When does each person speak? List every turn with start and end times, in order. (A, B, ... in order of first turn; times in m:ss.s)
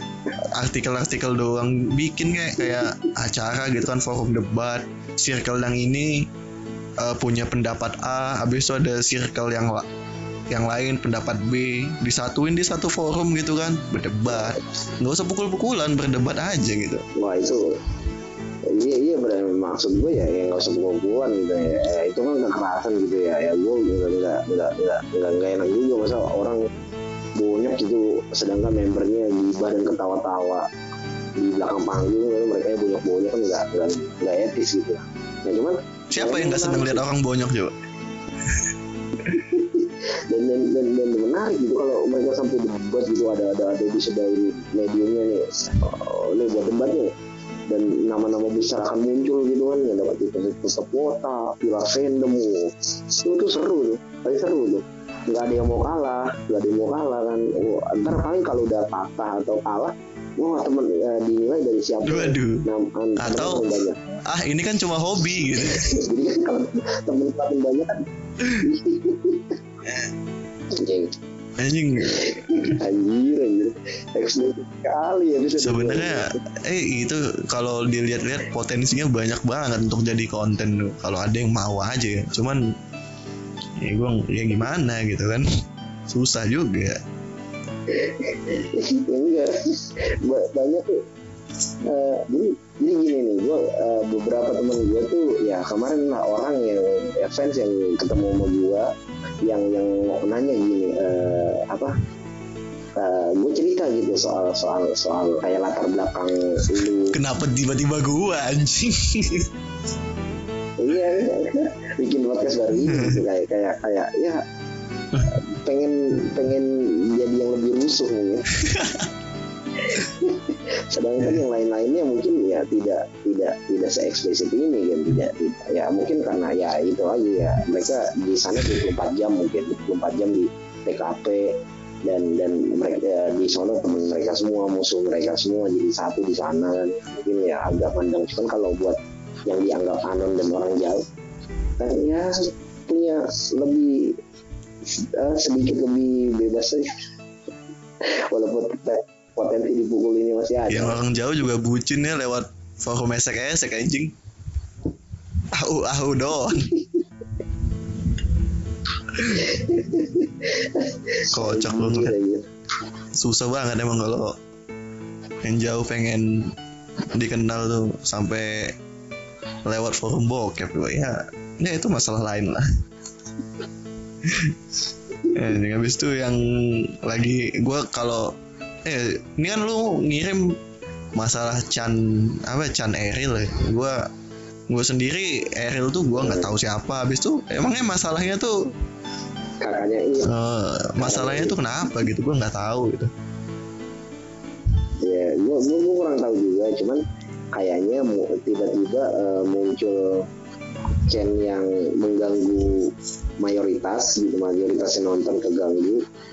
0:00.4-0:06.3 A
0:07.0-0:09.9 A
0:10.5-0:17.0 A
0:17.2-0:17.7 B
0:18.7-0:26.6 B
0:27.4-0:30.7 B
0:31.4-0:37.0 B
0:36.1-0:37.8 A
0:39.2-0:47.1 B
0:47.7-1:04.0 B
1:02.0-1:02.6 A
1:03.2-1:03.6 A
1:04.2-1:06.0 A
1:05.5-1:08.0 B
1:08.6-1:09.5 B
1:09.8-1:10.1 A
1:10.7-1:11.1 B
1:11.6-1:12.8 A
1:12.1-1:16.3 B
1:15.6-1:22.6 A
1:23.8-1:25.4 A
1:26.1-1:27.0 A
1:27.9-1:31.0 B
1:31.8-1:38.9 B
1:39.4-1:41.9 B
1:43.0-1:47.2 B
1:47.1-1:49.5 A
1:50.8-1:54.4 B
1:52.8-1:53.2 A
1:55.2-1:58.6 B
1:58.6-1:59.1 A
1:59.8-2:21.0 B
2:21.8-2:24.2 B
2:24.8-2:26.9 B
2:28.0-2:31.0 B
2:30.7-2:34.1 A
2:35.5-2:36.7 A
2:36.5-2:37.0 B
2:39.2-2:42.4 B
2:39.2-2:39.4 A
2:41.3-2:42.2 A
2:43.2-2:44.3 A
2:45.4-2:46.5 A
2:47.1-2:48.7 A
2:49.6-2:52.6 A
2:54.2-2:54.6 A
2:55.3-2:58.3 A
2:58.8-3:00.5 A
3:01.1-3:04.0 A
3:04.7-3:08.6 A
3:06.1-3:06.5 B
3:09.6-3:10.3 B
3:10.2-3:13.1 A
3:11.0-3:11.5 B
3:15.0-3:17.0 B
3:17.5-3:20.2 B
3:21.1-3:26.0 B